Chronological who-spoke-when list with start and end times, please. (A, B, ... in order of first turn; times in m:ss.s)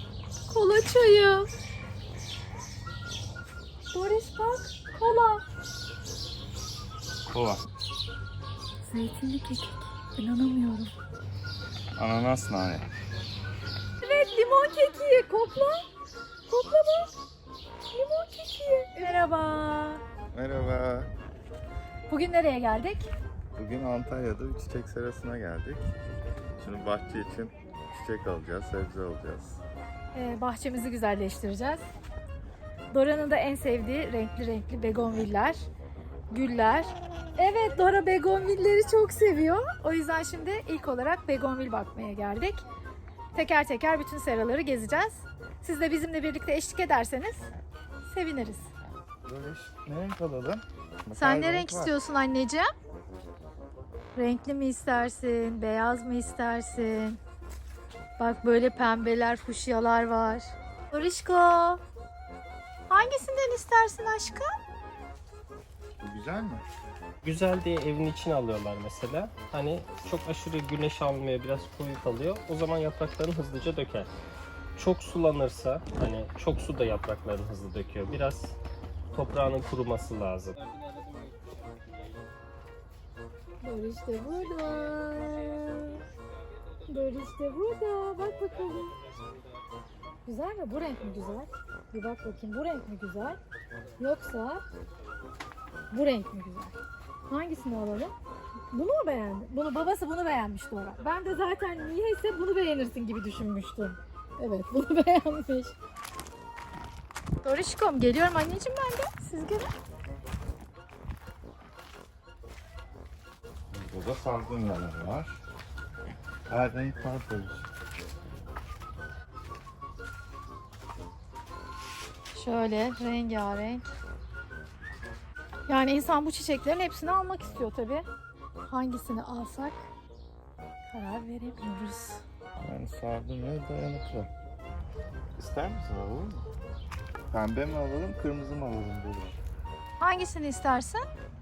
0:00.5-0:01.4 A
0:03.9-0:05.4 A
0:07.3-0:07.6 B
0:08.8-0:10.9 A
0:12.0-0:12.8 B
0:14.0-0:15.8 A
0:16.5-0:17.1 A
0:17.9-0:20.0 A
0:20.3-0:21.1 B
0:22.1-0:23.1 A
0:23.5-0:25.9 B
0:26.6-0:29.6 B
0:30.1-0:31.8 A
0:32.9-0:35.6 A
0:36.3-0:42.6 A
0:43.3-0:47.4 A
0:48.0-0:48.7 A
0:49.2-0:51.9 B
0:51.2-0:52.7 A
0:54.1-0:57.2 A
0:58.2-1:01.8 A
1:02.9-1:04.5 A
1:06.0-1:06.6 B
1:07.2-1:14.1 C
1:14.8-1:18.6 C
1:19.1-1:21.8 C
1:23.6-1:26.0 A
1:26.9-1:28.9 A
1:29.0-1:29.5 C
1:30.2-1:33.4 A
1:34.0-1:34.6 A
1:35.9-1:36.7 A
1:37.3-1:38.1 A
1:38.7-1:45.8 A
1:47.4-1:49.7 A
1:53.7-1:55.4 B
1:56.5-1:57.7 B
2:02.3-2:03.8 A
2:05.7-2:08.0 A
2:08.7-2:09.8 A
2:10.9-2:12.2 A
2:12.6-2:14.3 B
2:15.4-2:16.4 B
2:17.3-2:19.4 B
2:20.0-2:21.0 A